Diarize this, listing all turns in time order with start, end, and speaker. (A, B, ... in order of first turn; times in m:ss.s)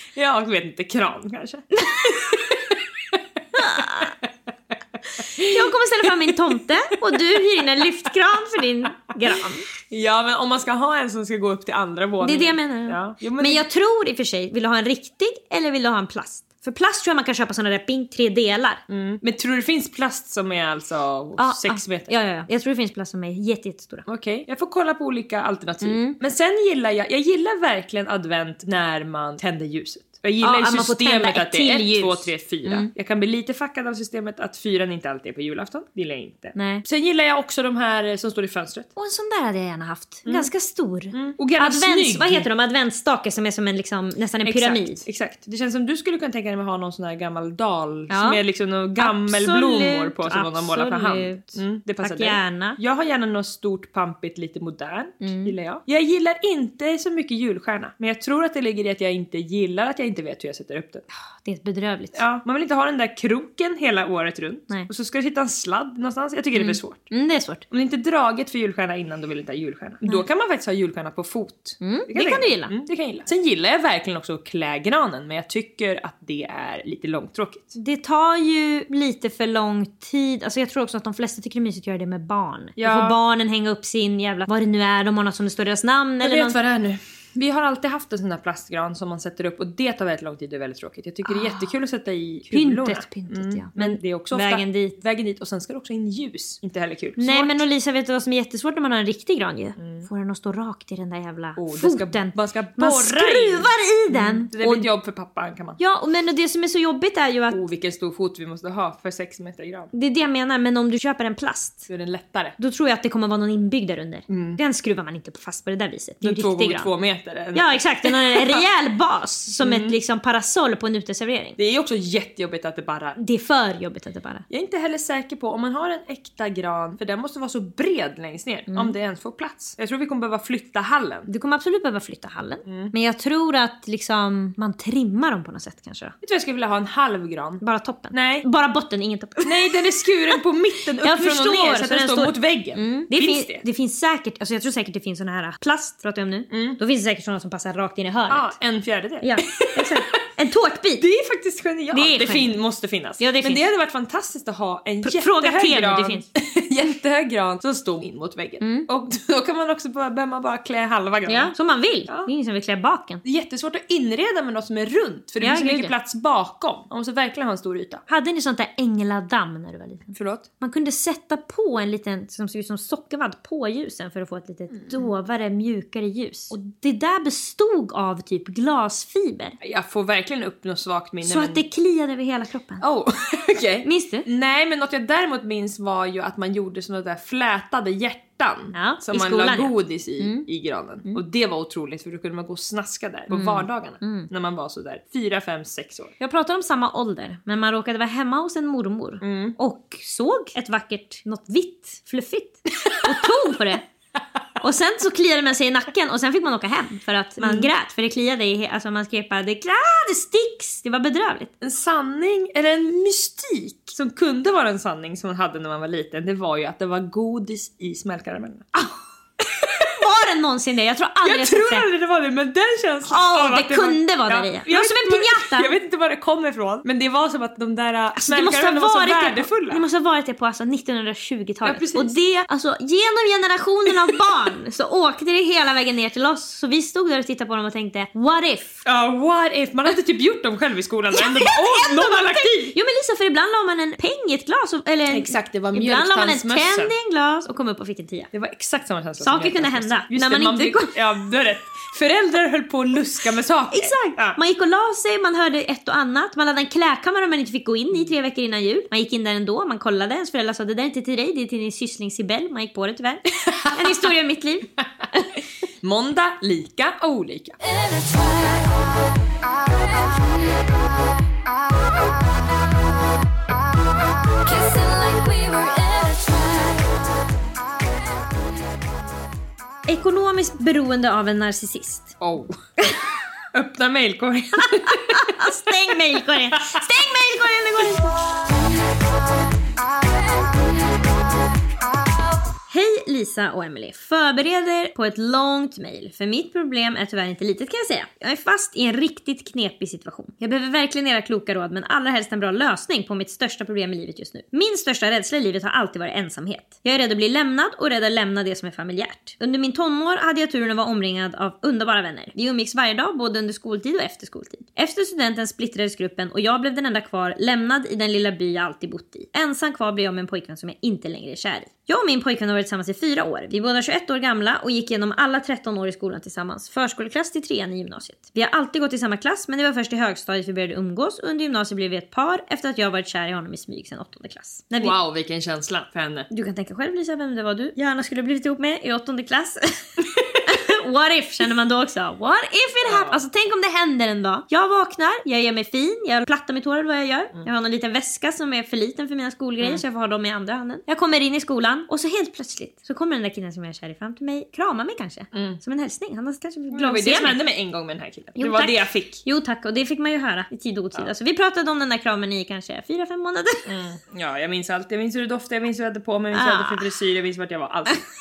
0:00.2-0:03.2 A
0:01.8-0:02.2 B
0:03.6-0:04.1 B
0:03.8-0:04.0 A
0:05.2-0:09.7 B
0:09.9-0:13.6 A
0:12.2-0:18.8 B
0:18.9-0:22.1 A
0:21.4-0:24.0 B
0:24.0-0:38.9 A
0:25.8-0:26.2 B
0:30.4-0:32.9 B
0:36.5-0:36.8 B
0:39.0-0:45.0 B
0:40.2-0:40.5 A
0:41.1-0:42.5 A
0:44.4-1:01.0 A
0:48.1-0:48.4 B
0:49.0-0:52.8 B
0:55.2-0:55.5 B
1:01.4-1:02.2 B
1:02.1-1:07.1 A
1:06.5-1:07.6 B
1:07.7-1:17.8 A
1:11.8-1:12.7 B
1:17.8-1:26.6 B
1:22.8-1:23.2 A
1:26.2-1:37.6 A
1:31.2-1:31.7 B
1:32.5-1:35.0 B
1:37.2-1:44.9 B
1:39.8-1:40.1 A
1:41.6-1:45.8 A
1:45.8-1:47.6 B
1:47.5-1:49.9 A
1:49.9-1:51.9 B
1:51.9-1:52.6 A
1:52.6-1:56.9 B
1:54.3-1:54.6 A
1:56.2-1:58.6 A
1:57.5-2:01.6 B
1:59.6-2:00.0 A
2:01.6-2:03.2 A
2:03.2-2:04.4 B
2:04.5-2:11.3 A
2:08.7-2:08.9 B
2:11.3-2:16.1 B
2:12.6-2:12.9 A
2:16.2-2:18.5 A
2:17.6-2:19.8 B
2:19.4-2:23.6 A
2:21.0-2:28.6 B
2:26.5-2:26.8 A
2:28.3-2:30.2 A
2:29.2-2:31.0 B
2:31.0-2:41.5 A
2:31.9-2:32.6 B
2:33.2-2:33.6 B
2:35.0-2:36.2 B
2:38.6-2:38.9 B
2:41.3-2:43.2 B
2:43.2-2:48.0 A
2:45.4-2:45.9 B
2:48.1-2:59.5 B
2:50.1-2:50.4 A
2:59.6-3:01.6 A
3:01.2-3:02.8 B
3:02.8-3:16.1 A
3:03.8-3:04.2 B
3:08.7-3:10.4 B
3:13.3-3:14.3 B
3:16.2-3:23.8 B
3:19.2-3:19.6 A
3:24.6-3:31.5 B
3:27.4-3:27.7 A
3:31.6-3:38.7 A
3:39.8-3:41.8 B
3:41.2-3:49.8 A
3:43.1-3:45.7 B
3:48.2-3:58.8 B
3:51.6-3:52.1 A
3:58.8-4:02.8 A
4:01.2-4:08.3 B
4:05.1-4:06.9 A
4:08.3-4:14.4 A
4:09.2-4:11.0 B
4:13.7-4:24.7 B
4:25.8-4:27.6 A
4:34.6-4:36.4 B
4:39.9-4:42.2 B
4:42.2-4:42.6 A
4:43.5-4:45.7 A
4:44.6-4:48.1 B
4:52.7-5:35.0 B
5:34.8-5:36.3 A
5:36.3-5:57.4 B
5:42.8-5:43.2 A
5:55.3-5:55.6 A
5:56.7-5:59.2 A
5:58.4-6:03.7 B
6:03.7-6:08.0 A
6:06.3-6:06.8 B